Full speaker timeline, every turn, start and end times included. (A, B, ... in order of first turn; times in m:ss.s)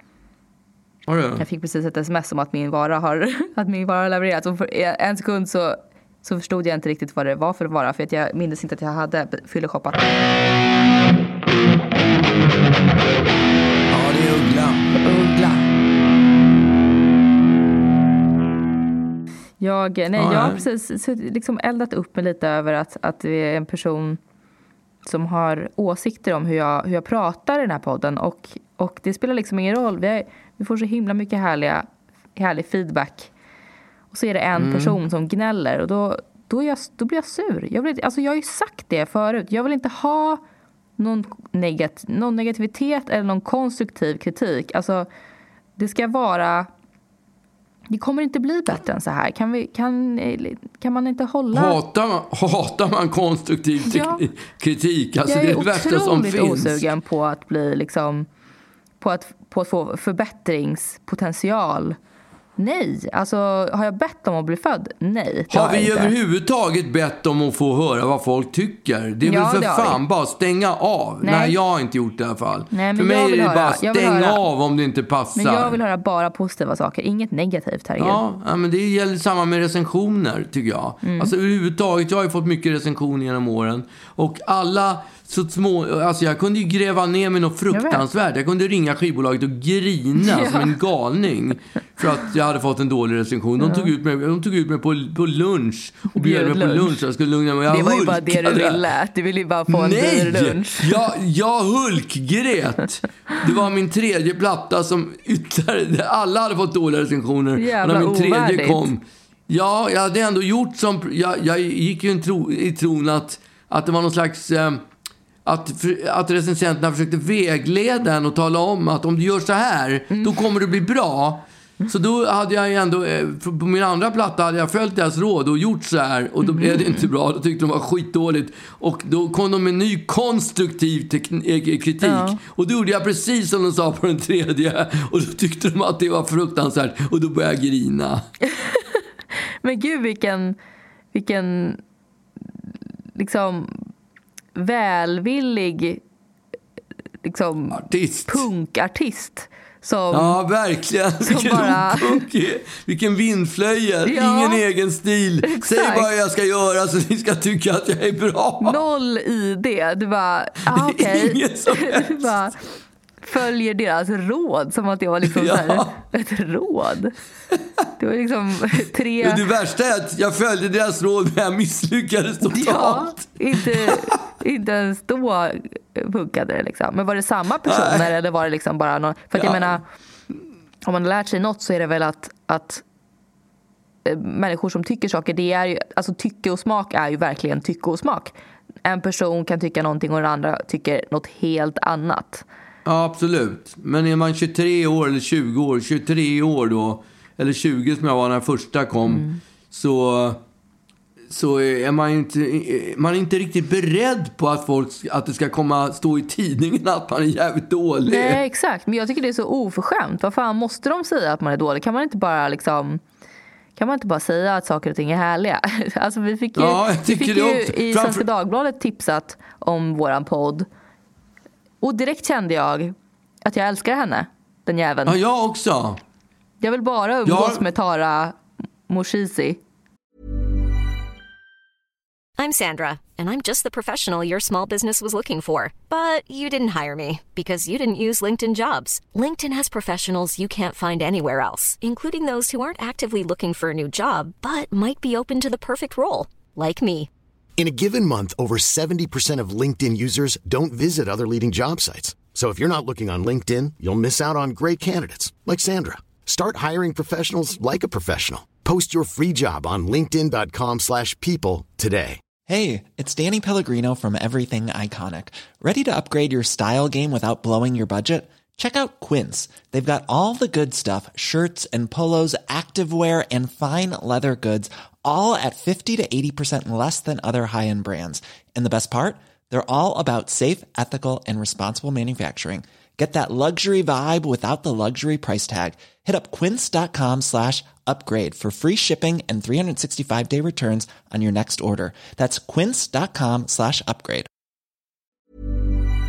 0:01.1-0:01.4 A
0:01.4-0:10.0 B
0:13.9-0:14.9 A
0:15.0-0:15.6 B
0:19.6-0:24.2 B
0:20.2-0:20.6 A
0:25.0-0:33.3 B
0:34.1-0:40.4 B
0:34.6-0:35.0 A
0:41.0-0:45.1 B
0:45.8-0:46.7 B
0:47.9-0:51.8 B
0:51.5-0:56.9 A
0:53.8-0:54.2 B
0:55.3-0:58.3 B
0:59.0-1:02.0 B
1:02.6-1:06.1 B
1:05.5-1:15.8 A
1:09.2-1:10.0 B
1:11.2-1:11.6 B
1:12.7-1:14.4 B
1:15.4-1:18.2 B
1:18.0-1:38.8 A
1:21.0-1:21.3 B
1:27.7-1:28.0 B
1:30.2-1:30.7 B
1:33.6-1:33.9 B
1:36.1-1:36.9 B
1:37.7-1:41.0 B
1:39.7-1:54.8 A
1:47.6-1:48.9 B
1:55.4-2:18.2 A
2:06.4-2:07.0 B
2:12.0-2:12.4 B
2:18.5-2:19.0 B
2:19.6-2:20.6 B
2:21.1-2:21.8 B
2:23.2-2:23.8 B
2:24.5-2:26.0 B
2:27.2-2:30.4 B
2:27.7-2:28.4 A
2:30.1-2:38.8 A
2:31.2-2:32.2 B
2:34.0-2:34.6 B
2:35.4-2:36.1 B
2:38.6-2:42.5 B
2:40.7-2:42.3 A
2:43.2-2:47.1 B
2:45.2-2:46.0 A
2:48.0-2:49.4 B
2:49.2-2:54.2 A
2:52.4-2:59.8 B
2:57.6-2:58.1 A
2:59.4-2:59.8 A
3:00.8-3:02.8 B
3:04.0-3:08.3 B
3:08.8-3:12.4 B
3:12.8-3:20.4 A
3:19.0-3:19.4 B
3:21.3-3:28.4 A
3:28.1-3:33.0 B
3:33.8-3:40.7 B
3:36.6-3:38.2 A
3:41.8-3:42.9 B
3:43.4-3:45.2 B
3:45.0-3:46.0 A
3:46.6-3:48.4 B
3:47.2-3:47.6 A
3:48.9-3:49.6 B
3:52.4-4:07.1 C
4:07.6-4:22.2 D
4:22.4-4:54.3 E